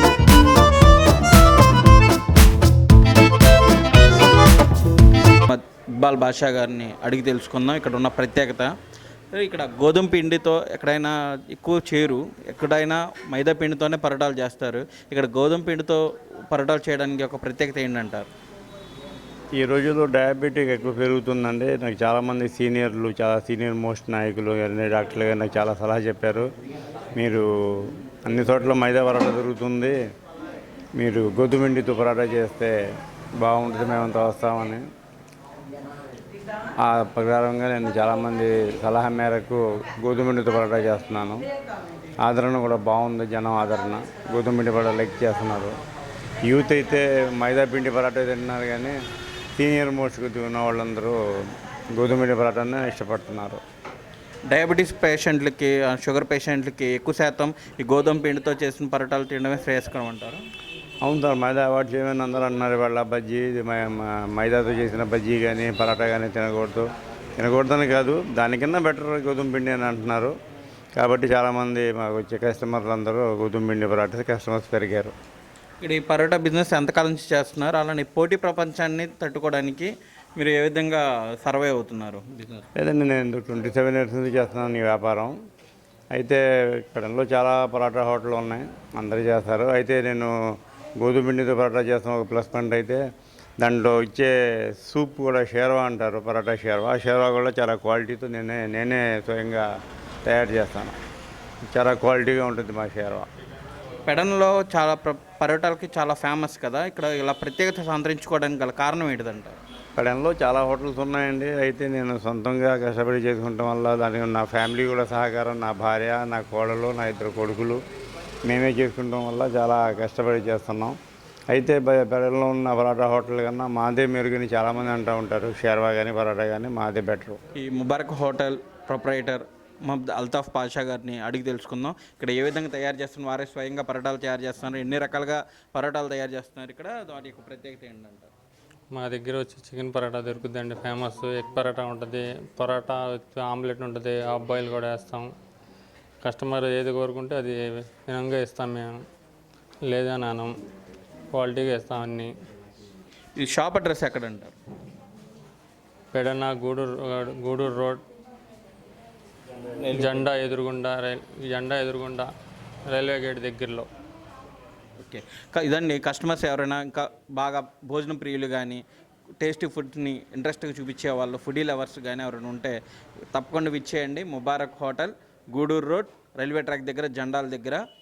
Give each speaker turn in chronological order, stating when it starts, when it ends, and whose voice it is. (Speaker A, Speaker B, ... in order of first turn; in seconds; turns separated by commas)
Speaker A: 5.5-8.7, Speaker A: 9.3-18.3, Speaker B: 19.6-26.4, Speaker B: 27.1-29.9, Speaker B: 31.0-32.7, Speaker B: 33.4-34.8, Speaker B: 36.8-41.4, Speaker B: 42.2-45.8, Speaker B: 46.4-49.0, Speaker B: 49.6-51.2, Speaker B: 52.0-53.6, Speaker A: 54.5-60.4, Speaker B: 61.0-66.9, Speaker B: 67.4-70.3, Speaker B: 71.0-75.1, Speaker A: 75.8-82.7, Speaker B: 82.8-85.3, Speaker B: 86.1-90.3, Speaker B: 91.0-93.0, Speaker B: 93.6-99.6, Speaker B: 100.2-101.0, Speaker B: 101.7-103.3, Speaker A: 104.0-109.5, Speaker B: 110.0-117.8, Speaker B: 118.5-120.9, Speaker B: 121.5-127.4, Speaker A: 127.5-138.3, Speaker C: 138.9-145.3, Speaker C: 146.2-149.0, Speaker C: 149.9-150.5, Speaker C: 151.3-152.3, Speaker A: 153.4-154.6, Speaker C: 156.1-158.0, Speaker A: 159.8-160.3, Speaker C: 159.9-162.3, Speaker C: 162.9-163.8, Speaker A: 165.0-168.8, Speaker A: 169.4-172.8, Speaker A: 173.3-177.8